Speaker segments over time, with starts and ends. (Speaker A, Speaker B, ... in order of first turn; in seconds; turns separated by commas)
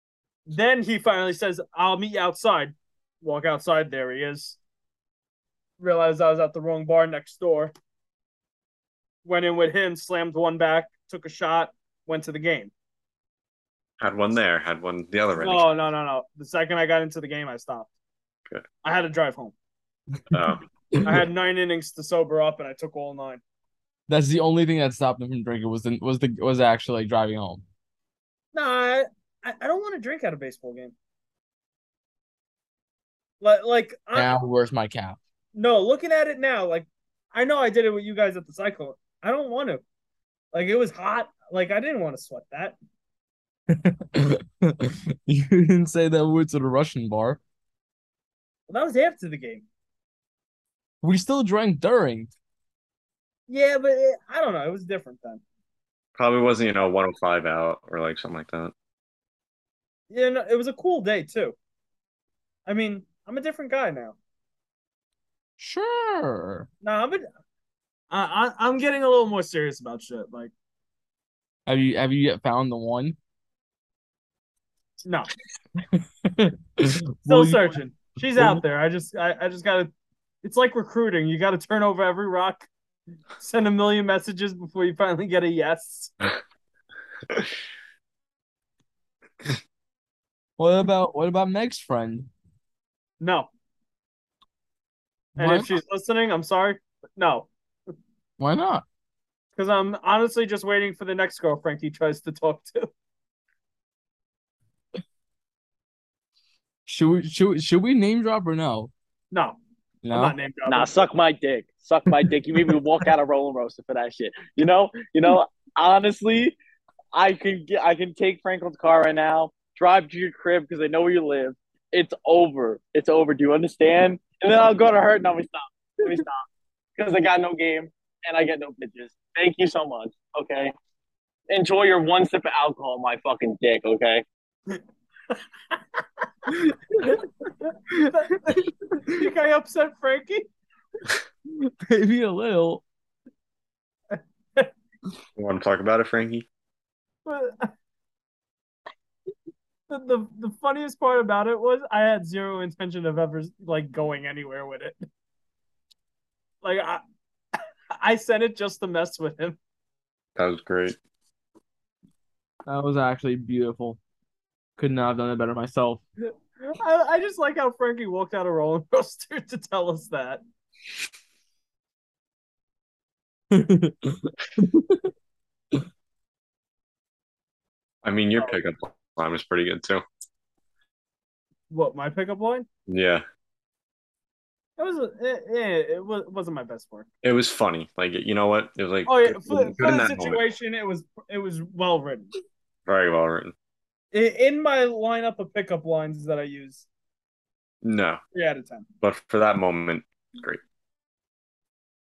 Speaker A: 0.5-4.6, Speaker A: 5.8-7.7, Speaker A: 9.2-12.7, Speaker B: 14.0-15.7, Speaker A: 15.3-17.9, Speaker A: 18.8-19.5, Speaker B: 20.3-20.6, Speaker A: 21.0-23.4, Speaker C: 24.1-27.6, Speaker A: 28.5-30.9, Speaker A: 33.4-34.3, Speaker C: 34.1-35.2, Speaker A: 35.5-39.8, Speaker A: 40.5-42.8, Speaker C: 43.7-47.4, Speaker A: 48.7-49.6, Speaker C: 51.0-52.3, Speaker A: 53.5-55.4, Speaker B: 56.1-58.7, Speaker A: 60.1-61.5, Speaker A: 62.6-64.2, Speaker C: 65.6-66.7, Speaker A: 66.8-67.2, Speaker A: 68.1-70.5, Speaker C: 71.7-73.2, Speaker A: 75.0-75.3, Speaker C: 76.0-77.8, Speaker A: 77.3-79.9, Speaker C: 78.3-78.6, Speaker A: 80.4-82.7, Speaker A: 83.4-86.1, Speaker C: 90.6-92.3, Speaker A: 93.2-93.5, Speaker C: 95.4-95.7, Speaker A: 95.4-97.5, Speaker C: 98.4-98.8, Speaker A: 99.6-102.9, Speaker C: 106.9-108.9, Speaker A: 109.3-109.6, Speaker C: 110.0-110.3, Speaker A: 110.1-110.9, Speaker D: 110.7-116.5, Speaker D: 117.1-126.4, Speaker D: 127.0-130.7, Speaker D: 131.5-134.2, Speaker C: 136.5-137.2, Speaker C: 137.9-138.7, Speaker A: 138.1-138.6, Speaker A: 139.1-140.5, Speaker C: 141.5-142.8, Speaker A: 144.1-144.7, Speaker B: 145.4-146.4, Speaker A: 147.2-147.7, Speaker A: 149.9-155.0, Speaker A: 156.6-157.0, Speaker A: 158.0-159.6, Speaker B: 160.4-161.0, Speaker C: 162.7-164.0, Speaker C: 164.8-166.0, Speaker A: 166.7-170.4, Speaker C: 173.5-175.1, Speaker B: 178.0-180.0, Speaker A: 178.3-178.6, Speaker A: 181.7-182.7, Speaker B: 182.9-183.2, Speaker A: 184.8-187.1, Speaker B: 187.2-190.4, Speaker A: 189.1-192.3, Speaker B: 192.8-193.5, Speaker A: 194.1-196.8, Speaker B: 197.8-198.2, Speaker A: 198.3-198.9, Speaker B: 199.0-200.6